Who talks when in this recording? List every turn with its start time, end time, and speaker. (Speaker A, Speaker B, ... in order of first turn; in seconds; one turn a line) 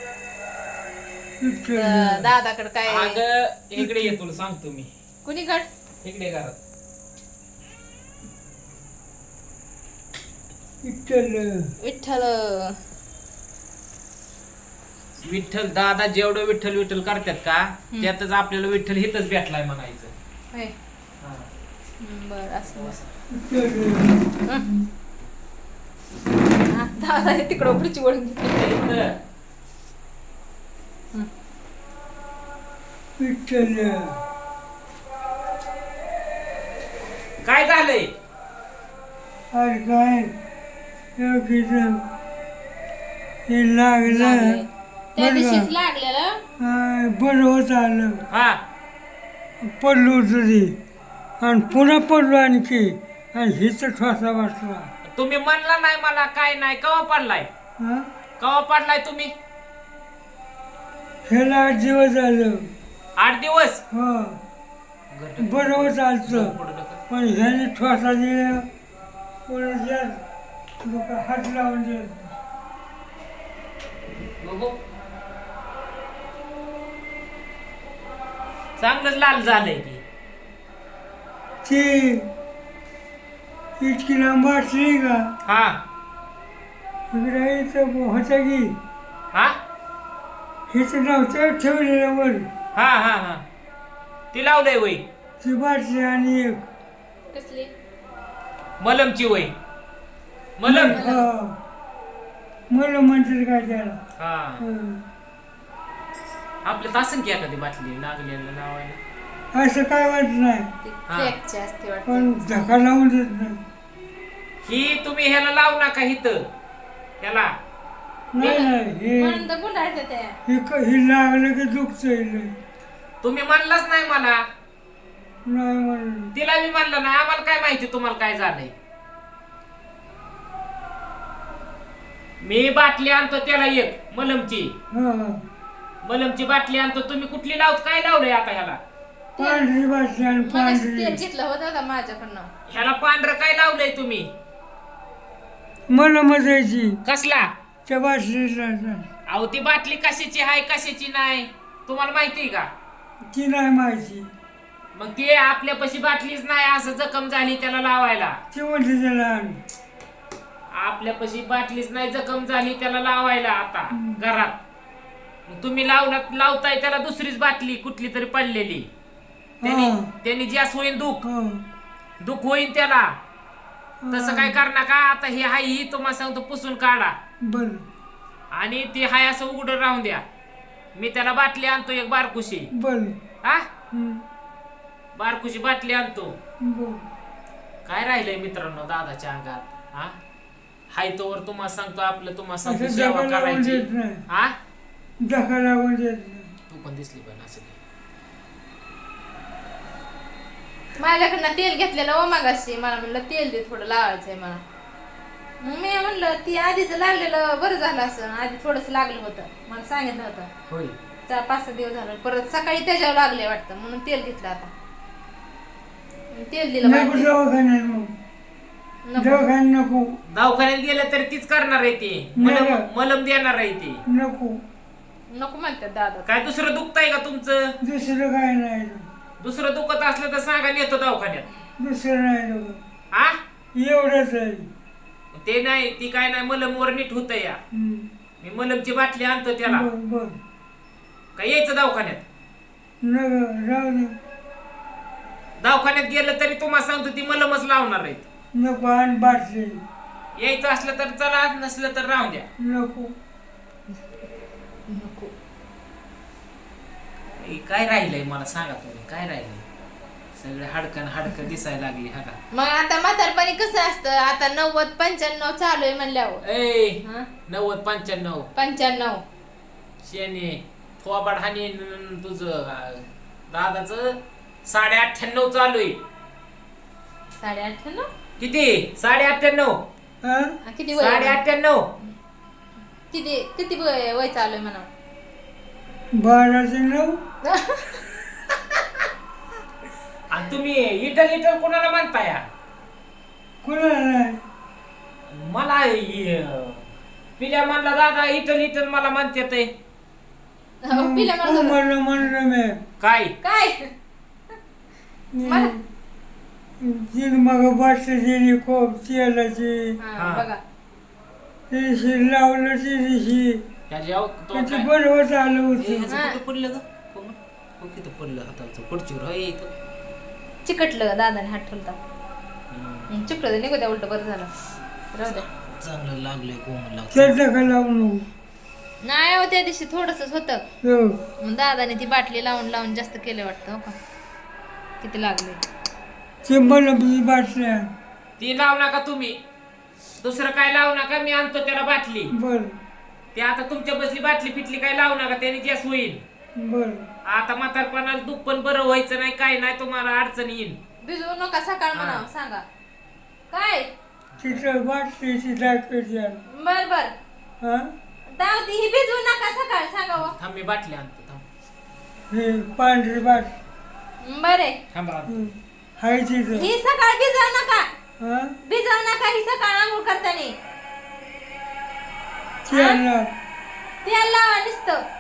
Speaker A: 1.4-2.3
Speaker B: 1.7-3.2
Speaker C: 2.9-4.9
Speaker A: 3.8-4.2
Speaker B: 5.2-5.7
Speaker C: 6.0-6.6
Speaker A: 10.8-11.7
Speaker B: 11.8-12.8
Speaker C: 15.2-20.1
Speaker C: 21.2-21.5
Speaker B: 22.0-23.0
Speaker C: 22.7-23.1
Speaker A: 23.3-24.2
Speaker B: 26.7-28.8
Speaker C: 28.5-29.1
Speaker A: 33.2-34.1
Speaker C: 37.4-38.1
Speaker A: 39.5-40.3
Speaker A: 41.2-42.0
Speaker A: 43.5-44.6
Speaker B: 44.1-46.4
Speaker A: 45.2-45.7
Speaker A: 46.6-48.2
Speaker C: 48.3-48.6
Speaker A: 49.6-50.8
Speaker A: 51.4-54.9
Speaker C: 55.0-57.5
Speaker A: 57.8-58.1
Speaker C: 58.4-59.3
Speaker A: 61.3-62.7
Speaker C: 63.2-63.8
Speaker A: 63.9-64.4
Speaker C: 65.1-67.0
Speaker A: 65.4-66.5
Speaker A: 67.1-68.7
Speaker A: 69.5-70.2
Speaker A: 70.8-72.3
Speaker C: 74.4-74.8
Speaker C: 78.8-80.0
Speaker A: 81.7-82.3
Speaker A: 83.8-85.3
Speaker C: 85.5-85.8
Speaker A: 87.1-88.8
Speaker A: 90.7-92.5
Speaker C: 92.8-93.4
Speaker C: 94.3-95.0
Speaker A: 95.4-96.6
Speaker B: 97.3-97.7
Speaker C: 98.8-99.5
Speaker C: 100.6-101.0
Speaker A: 100.7-101.5
Speaker B: 100.9-101.3
Speaker A: 102.7-104.0
Speaker C: 104.2-104.7
Speaker A: 104.6-105.0
Speaker C: 106.6-109.0
Speaker A: 109.5-110.7
Speaker B: 110.8-112.7
Speaker C: 111.1-111.3
Speaker A: 112.1-113.6
Speaker C: 114.6-116.5
Speaker C: 117.2-117.5
Speaker A: 118.3-119.5
Speaker C: 118.4-118.7
Speaker B: 118.4-120.4
Speaker A: 120.5-122.5
Speaker C: 123.2-124.4
Speaker A: 125.5-126.3
Speaker C: 126.3-128.7
Speaker C: 132.4-134.7
Speaker A: 134.9-135.4
Speaker C: 136.0-138.8
Speaker B: 139.4-139.7
Speaker A: 139.4-141.2
Speaker B: 140.4-142.5
Speaker C: 142.7-144.3
Speaker A: 145.9-147.0
Speaker C: 147.1-147.5
Speaker A: 147.9-149.1
Speaker C: 149.3-152.7
Speaker A: 153.3-154.3
Speaker C: 154.9-158.4
Speaker A: 158.5-159.6
Speaker C: 160.7-164.6
Speaker C: 165.5-168.9
Speaker A: 169.6-170.1
Speaker C: 169.6-171.2
Speaker A: 171.2-171.6
Speaker C: 172.2-173.1
Speaker A: 174.0-174.6
Speaker C: 174.1-177.2
Speaker A: 177.4-177.8
Speaker C: 178.5-180.2
Speaker C: 180.9-182.7
Speaker A: 182.7-183.2
Speaker A: 183.9-184.2
Speaker C: 185.2-186.4
Speaker A: 186.6-187.0
Speaker C: 187.8-190.2
Speaker C: 190.9-194.5
Speaker A: 192.7-194.2
Speaker A: 195.2-196.5
Speaker C: 196.7-197.8
Speaker B: 201.0-204.6
Speaker B: 205.6-210.5
Speaker C: 210.7-210.9
Speaker B: 211.3-214.7
Speaker B: 216.3-217.3
Speaker A: 216.8-218.1
Speaker B: 219.1-219.5
Speaker A: 219.2-220.2
Speaker C: 220.3-224.0
Speaker A: 222.4-222.9
Speaker A: 224.1-224.6
Speaker B: 225.3-226.3
Speaker C: 226.3-227.8
Speaker A: 227.8-229.1
Speaker C: 229.4-231.5
Speaker A: 231.8-232.8
Speaker C: 233.1-233.4
Speaker A: 233.8-234.7
Speaker C: 235.3-237.6
Speaker A: 237.7-238.1
Speaker C: 238.4-239.9
Speaker A: 239.7-240.4
Speaker C: 241.4-242.2
Speaker A: 243.0-244.2
Speaker C: 245.6-248.2
Speaker A: 248.5-249.8
Speaker C: 250.4-252.5
Speaker A: 252.6-253.1
Speaker B: 254.9-255.3
Speaker C: 257.4-259.6
Speaker C: 260.4-262.4
Speaker B: 262.5-266.4
Speaker C: 266.4-268.5
Speaker B: 267.0-267.3
Speaker B: 268.6-269.2
Speaker C: 270.0-276.0
Speaker B: 277.4-278.1
Speaker C: 278.4-279.8
Speaker A: 280.2-280.6
Speaker B: 280.6-281.4
Speaker C: 280.9-281.9
Speaker B: 283.1-284.9
Speaker A: 286.1-287.2
Speaker B: 287.5-288.1
Speaker C: 290.3-292.5
Speaker A: 293.6-294.4
Speaker C: 295.3-299.7
Speaker B: 300.8-301.8
Speaker A: 300.9-302.8
Speaker C: 303.0-303.4
Speaker B: 303.4-303.9
Speaker A: 305.3-305.8
Speaker B: 305.4-305.7
Speaker A: 306.8-310.0
Speaker B: 310.0-310.6
Speaker C: 310.2-310.5
Speaker A: 311.7-313.6
Speaker C: 313.9-314.9
Speaker A: 314.5-316.1
Speaker C: 315.7-319.7
Speaker B: 316.1-316.4
Speaker B: 320.6-322.0
Speaker C: 322.7-323.2
Speaker B: 323.1-324.5
Speaker B: 325.1-325.5
Speaker C: 325.2-327.6
Speaker A: 327.1-328.2
Speaker B: 329.0-330.6
Speaker A: 330.8-331.2
Speaker B: 331.4-333.9
Speaker B: 335.0-335.6
Speaker A: 336.4-337.9
Speaker C: 338.4-339.4
Speaker C: 340.2-342.3
Speaker A: 342.3-342.8
Speaker C: 343.4-346.2
Speaker A: 346.6-347.1
Speaker C: 347.3-350.8
Speaker B: 351.0-352.6
Speaker C: 351.9-352.3
Speaker B: 353.5-353.9
Speaker C: 354.4-354.7
Speaker A: 354.4-356.4
Speaker B: 356.5-357.1
Speaker A: 357.6-357.9
Speaker B: 358.3-360.3
Speaker C: 360.2-361.4
Speaker A: 362.3-363.5
Speaker B: 364.2-364.8
Speaker C: 364.9-365.5
Speaker A: 365.3-366.7
Speaker B: 366.5-367.9
Speaker A: 368.2-368.6
Speaker B: 368.7-370.6
Speaker A: 372.7-373.3
Speaker B: 372.7-373.0
Speaker B: 374.0-375.0